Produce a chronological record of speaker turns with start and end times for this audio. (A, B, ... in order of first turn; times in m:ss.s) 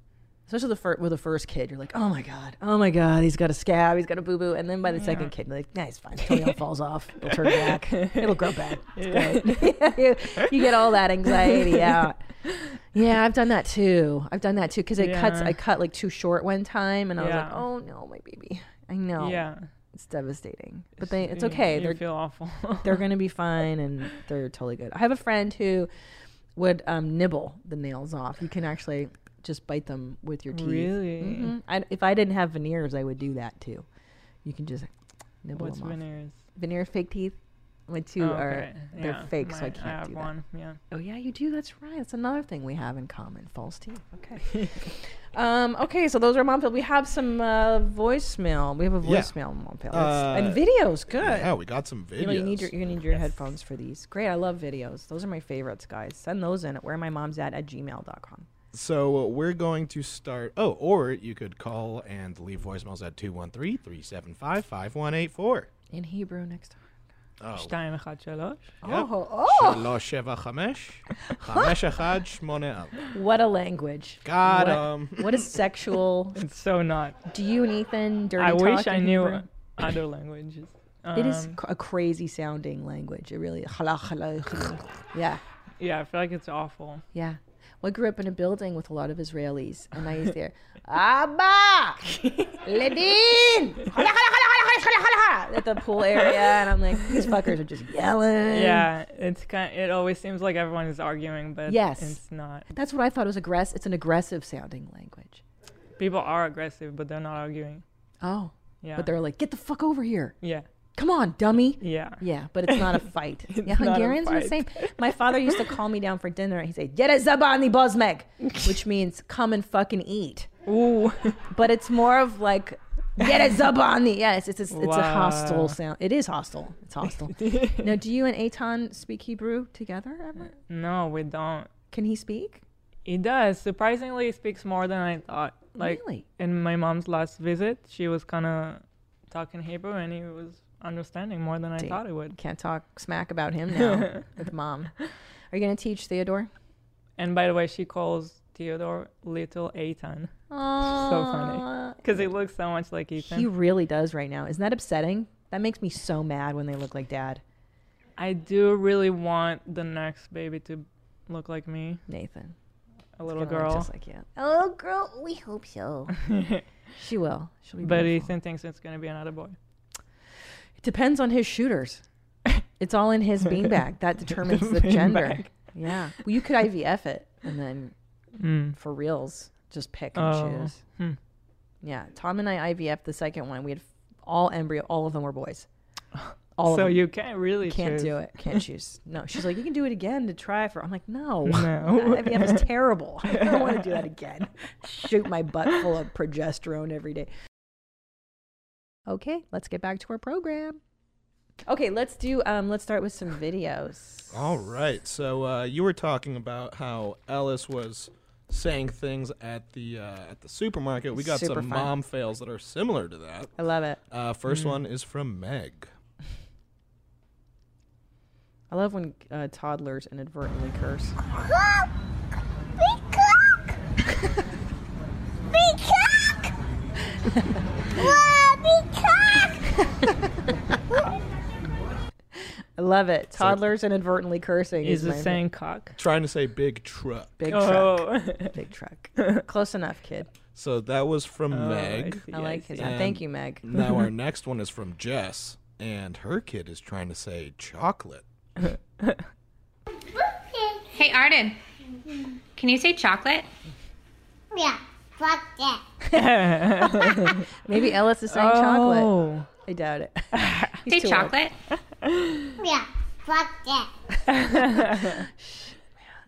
0:00.5-0:12.2 A
0:04.9-0:05.3 B
0:07.4-0:10.5 B
0:11.3-0:11.9 B
0:12.9-0:22.0 A
0:15.0-0:15.6 B
0:17.2-0:17.6 B
0:19.2-0:19.7 B
0:21.0-0:23.0 B
0:22.8-0:25.9 A
0:26.6-0:33.9 A
0:30.5-0:31.5 B
0:34.4-0:34.9 A
0:35.4-0:36.0 A
0:35.5-0:36.4 B
0:36.6-0:37.4 A
0:37.9-0:40.3 A
0:38.2-0:40.8 B
0:40.9-0:51.5 A
0:44.5-0:44.8 B
0:49.0-0:49.3 C
0:49.9-0:52.8 C
0:52.2-0:58.5 A
0:58.7-1:05.7 C
1:05.9-1:06.8 A
1:07.4-1:07.8 C
1:07.5-1:08.8 B
1:08.8-1:09.9 A
1:08.8-1:13.1 C
1:11.4-1:11.7 A
1:13.1-1:16.4 A
1:14.2-1:15.5 C
1:16.4-1:17.2 B
1:17.3-1:19.5 A
1:18.4-1:21.6 B
1:21.1-1:25.4 A
1:25.8-1:27.0 B
1:27.1-1:38.9 A
1:38.5-1:42.7 B
1:41.7-1:45.4 A
1:46.0-1:47.8 B
1:48.2-1:50.4 A
1:48.8-1:49.1 B
1:51.0-2:00.5 A
1:51.8-1:55.7 B
2:00.7-2:01.4 B
2:01.5-2:10.5 A
2:04.7-2:05.8 B
2:07.3-2:07.9 B
2:10.5-2:11.7 B
2:11.9-2:12.6 A
2:13.1-2:22.4 B
2:15.8-2:16.3 A
2:21.8-2:24.9 A
2:23.8-2:24.3 B
2:25.5-2:26.5 A
2:27.2-2:30.3 B
2:30.5-2:32.3 A
2:30.9-2:33.5 B
2:33.2-2:37.4 A
2:38.2-2:42.0 B
2:42.1-2:42.6 A
2:43.2-2:43.9 B
2:43.3-2:46.2 A
2:46.2-2:46.6 B
2:47.0-2:48.3 A
2:47.8-2:49.6 B
2:50.8-2:52.0 A
2:52.8-2:57.9 A
2:54.4-2:55.6 B
2:58.4-2:58.8 B
2:58.8-3:00.8 A
3:00.2-3:01.2 B
3:01.8-3:05.7 A
3:06.6-3:07.1 A
3:06.6-3:08.6 B
3:07.6-3:17.3 A
3:11.5-3:12.7 B
3:13.3-3:14.0 B
3:19.1-3:20.8 A
3:21.7-3:24.5 A
3:24.3-3:33.5 C
3:31.1-3:31.9 A
3:33.6-3:34.0 A
3:34.1-3:35.9 C
3:34.5-3:34.8 B
3:38.7-3:41.2 A
3:41.3-3:41.9 D
3:42.8-3:43.8 D
3:45.4-3:46.5 D
3:47.3-3:47.6 A
3:48.0-3:49.6 D
3:52.4-3:55.4 A
3:53.4-3:53.6 C
3:54.8-3:56.0 B
3:56.0-3:57.4 C
3:57.4-4:00.3 A
3:57.5-3:58.6 B
4:00.5-4:02.3 C
4:01.5-4:03.0 B
4:02.3-4:03.6 A
4:02.8-4:08.2 C
4:03.7-4:04.0 B
4:10.2-4:10.8 D
4:10.9-4:11.6 E
4:12.6-4:13.5 E
4:14.5-4:15.8 D
4:16.1-4:17.5 B
4:16.3-4:21.3 A
4:18.3-4:19.5 B
4:20.3-4:20.8 B
4:20.9-4:21.5 E
4:22.0-4:22.5 B
4:22.6-4:23.9 D
4:24.3-4:25.2 B
4:24.8-4:25.9 A